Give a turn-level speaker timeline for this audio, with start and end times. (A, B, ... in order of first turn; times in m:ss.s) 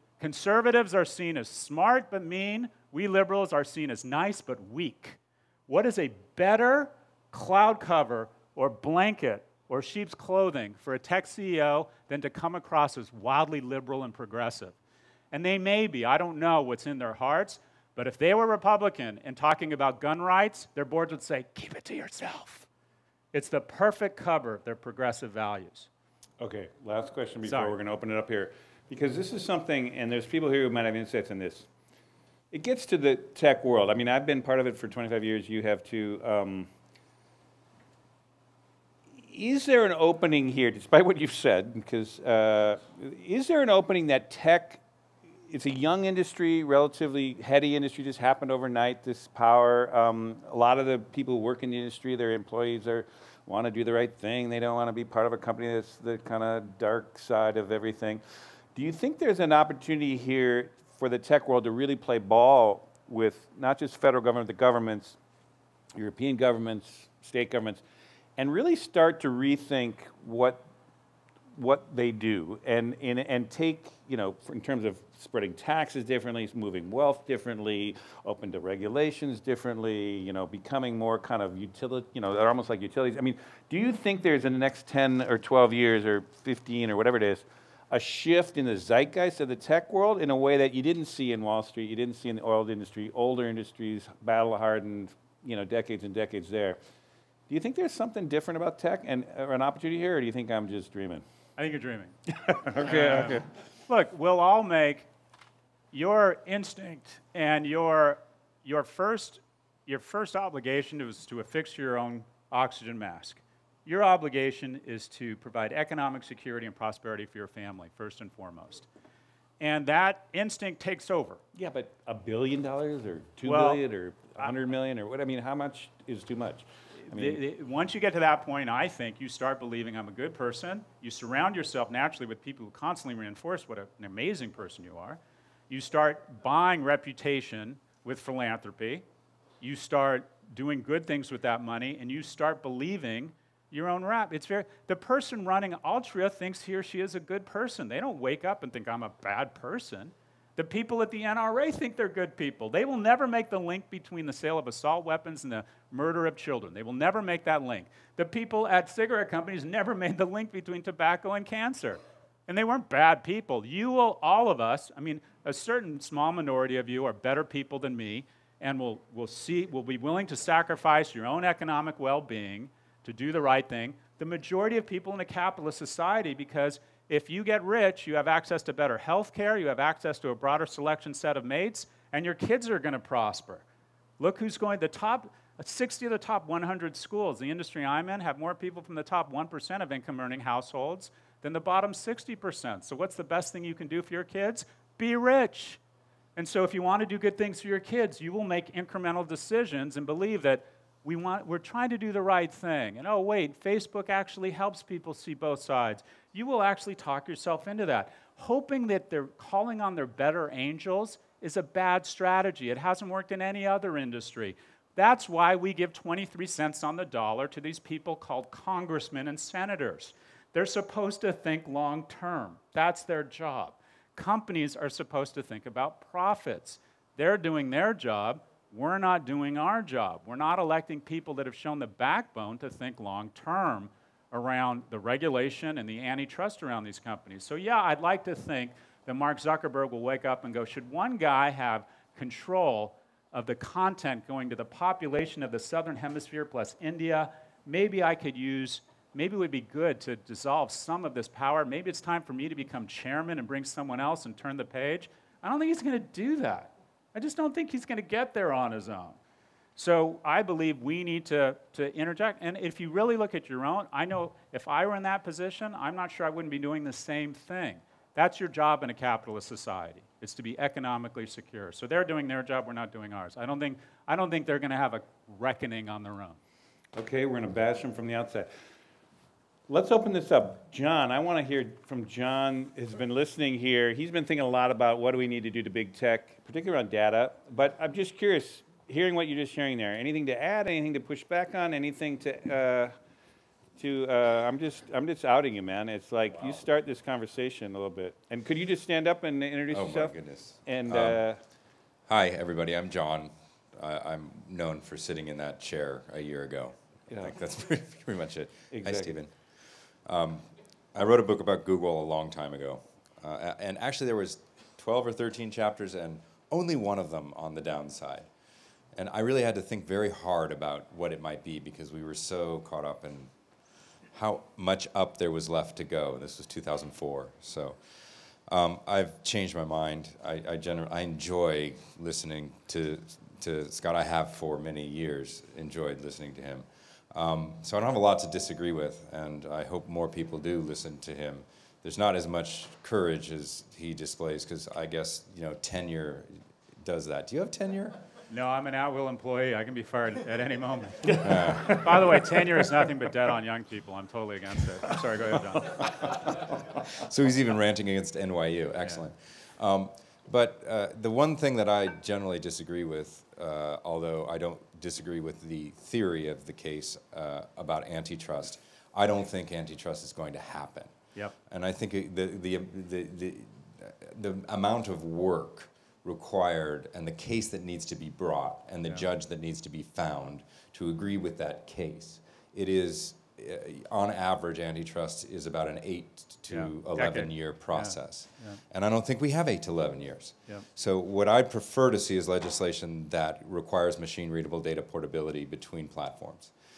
0:00.2-0:14.8 A
0:15.3-0:22.7 A
0:23.3-0:25.9 A
0:26.4-0:31.7 B
0:27.4-0:27.8 A
0:32.5-0:36.7 B
0:39.2-0:44.8 B
0:45.5-0:58.2 B
0:58.8-1:05.2 B
1:06.0-1:07.8 B
1:08.4-1:10.6 B
1:11.6-1:36.8 B
1:37.5-1:41.2 B
1:41.6-1:42.1 A
1:42.3-1:43.5 B
1:42.7-1:45.1 A
1:45.9-1:58.9 A
1:59.6-2:01.4 A
2:01.6-2:07.4 B
2:03.4-2:03.8 A
2:07.0-2:19.0 A
2:19.6-3:03.6 A
3:04.2-3:15.8 A
3:16.4-4:19.2 A
4:19.8-4:36.4 A
4:36.9-4:38.5 B
4:39.7-4:52.9 B
4:53.8-5:00.1 B
4:59.7-5:01.2 C
5:00.7-5:01.4 B
5:02.1-5:09.3 C
5:07.1-5:07.4 B
5:08.7-5:09.1 B
5:10.0-5:18.3 C
5:19.0-5:23.3 C
5:24.1-5:27.8 C
5:28.5-5:48.0 C
5:48.3-5:55.8 A
5:51.2-5:52.1 C
5:56.3-6:10.9 C
6:11.5-6:36.5 C
6:26.5-6:28.6 A